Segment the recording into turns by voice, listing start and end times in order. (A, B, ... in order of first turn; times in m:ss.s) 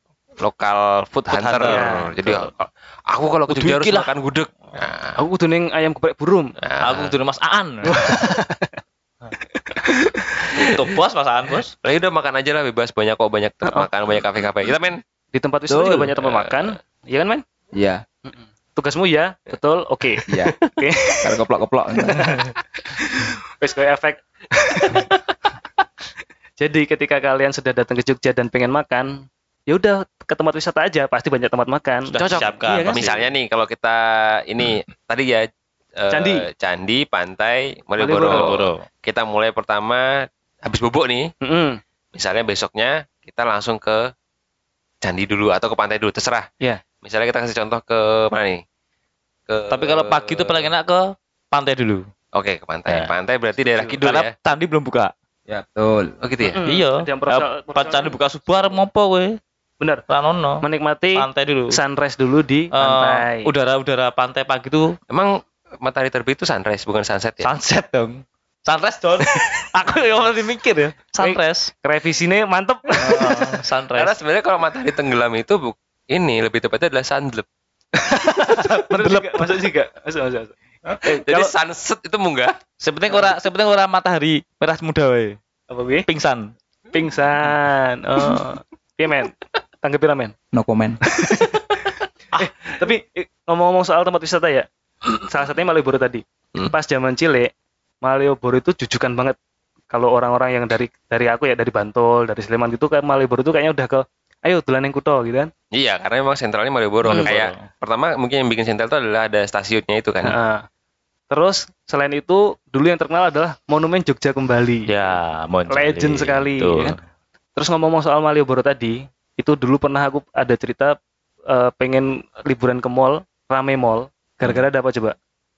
0:00.4-0:05.2 A
0:01.3-0:02.2 B
0:01.6-0:02.4 C
0:03.5-0:04.1 B
0:05.2-0:06.5 C
0:06.6-0:07.1 A
0:06.8-0:08.0 B
0:07.8-0:08.8 C
0:09.5-0:10.7 C
0:10.6-0:11.7 B
0:10.6-0:10.9 A
0:11.8-0:15.0 A
0:15.3-0:17.4 C
0:15.9-0:16.6 A
0:17.8-0:18.0 D
0:18.3-0:21.3 C
0:20.3-0:20.6 D
0:21.2-0:22.4 D
0:22.1-0:25.2 C
0:26.6-0:33.1 C
0:32.1-0:33.3 B
0:32.2-0:35.5 A
0:36.0-0:41.3 A
0:36.1-0:36.5 C
0:38.0-0:38.5 C
0:38.2-0:38.8 B
0:41.4-0:41.8 C
0:42.1-0:44.0 A
0:45.0-0:46.5 A
0:47.0-0:48.6 A
0:49.5-0:50.7 A
0:49.7-0:52.0 B
0:52.3-0:54.3 A
0:52.9-0:53.1 B
0:53.6-0:54.0 C
0:54.0-0:55.1 B
0:55.5-0:56.2 D
0:56.2-0:56.6 A
0:56.4-0:58.2 C
0:56.6-0:59.4 B
1:00.1-1:00.6 B
1:00.6-1:03.5 C
1:01.2-1:01.8 B
1:02.7-1:05.0 B
1:05.1-1:07.5 A
1:07.4-1:11.7 B
1:11.2-1:13.6 C
1:13.0-1:14.1 B
1:14.0-1:17.4 A
1:18.0-1:21.5 C
1:18.3-1:19.6 B
1:21.3-1:22.6 A
1:22.8-1:25.4 B
1:25.7-1:26.1 C
1:26.1-1:26.5 B
1:26.9-1:30.3 C
1:30.5-1:31.0 D
1:31.1-1:34.7 C
1:35.2-1:37.5 C
1:38.0-1:39.4 C
1:39.9-1:45.5 C
1:45.7-1:50.4 A
1:47.0-1:47.7 B
1:50.2-1:50.6 C
1:51.3-1:54.9 C
1:54.9-1:57.0 B
1:55.7-1:57.0 C
1:57.6-2:01.0 C
2:01.5-2:05.2 C